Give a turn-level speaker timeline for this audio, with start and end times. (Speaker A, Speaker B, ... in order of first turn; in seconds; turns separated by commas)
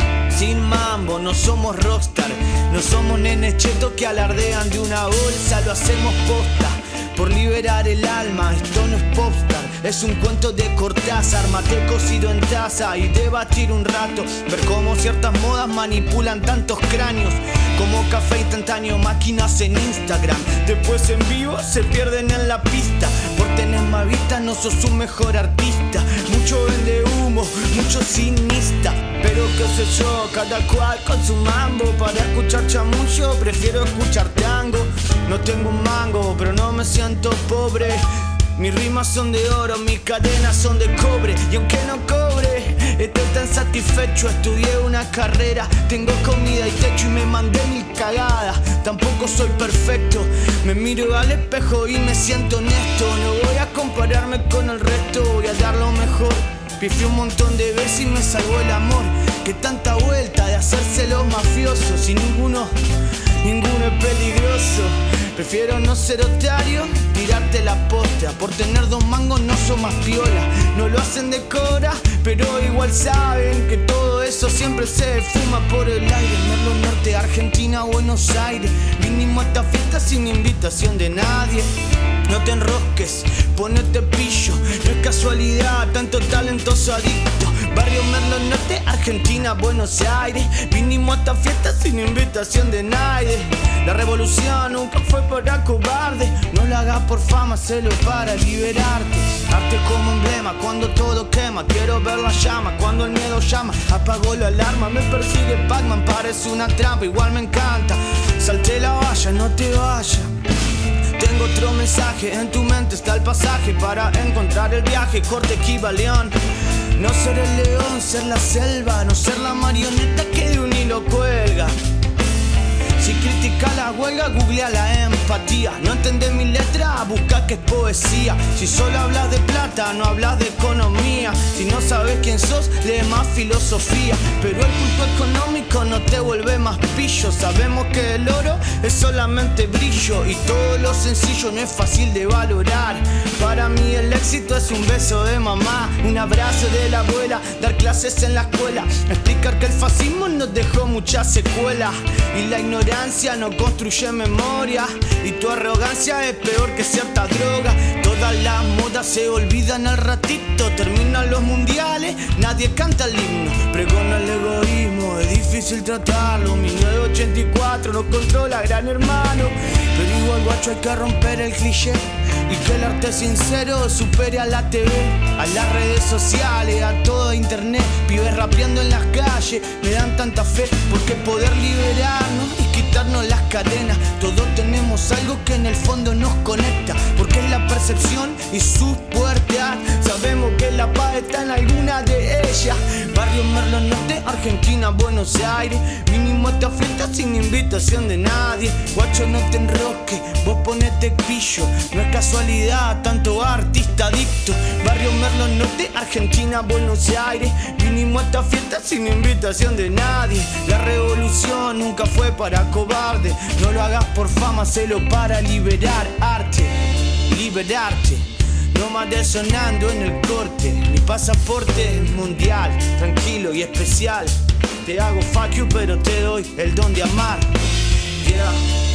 Speaker A: 0.3-81.7, Speaker A: 82.2-110.3, Speaker A: 111.1-121.7, Speaker A: 123.0-228.6